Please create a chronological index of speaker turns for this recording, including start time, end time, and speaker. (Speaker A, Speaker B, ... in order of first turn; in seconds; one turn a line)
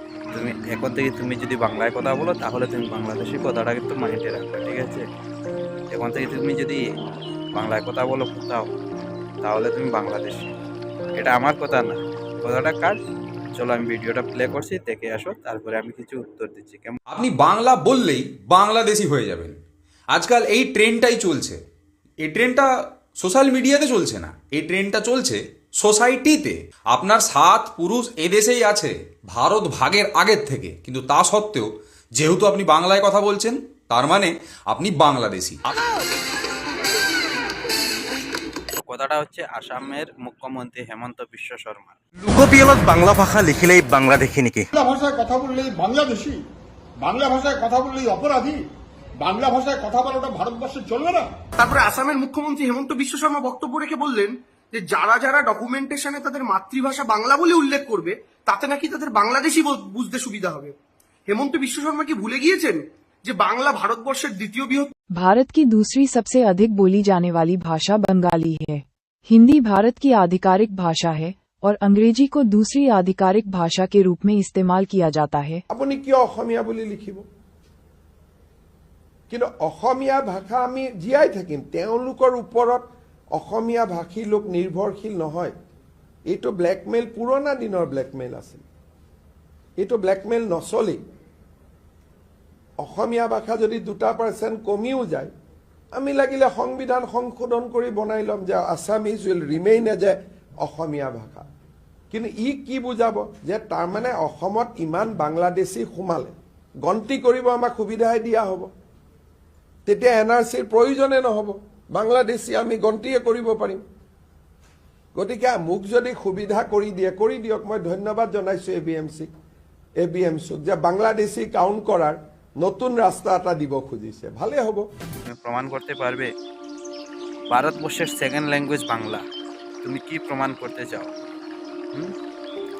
Speaker A: 0.3-5.0
Speaker A: 5.9-6.8
Speaker A: 7.5-8.7
Speaker A: 9.4-10.5
Speaker A: 11.2-13.0
Speaker A: 13.6-17.0
Speaker B: 17.1-19.6
Speaker B: 20.1-21.6
Speaker B: 22.2-35.8
Speaker A: 38.8-42.0
Speaker C: 42.2-44.7
Speaker D: 44.7-46.4
Speaker D: 47.0-48.6
Speaker D: 49.2-51.3
Speaker E: 51.6-60.8
Speaker E: 61.3-64.9
Speaker F: 65.2-75.6
Speaker G: 75.7-77.3
Speaker G: 79.3-85.5
Speaker G: 86.3-88.6
Speaker G: 89.8-91.0
Speaker G: 92.8-95.3
Speaker G: 95.9-101.5
Speaker G: 102.1-108.7
Speaker G: 109.9-113.8
Speaker G: 115.2-119.3
Speaker G: 120.0-124.9
Speaker A: 125.3-126.3
Speaker A: 127.5-129.2
Speaker A: 129.8-131.1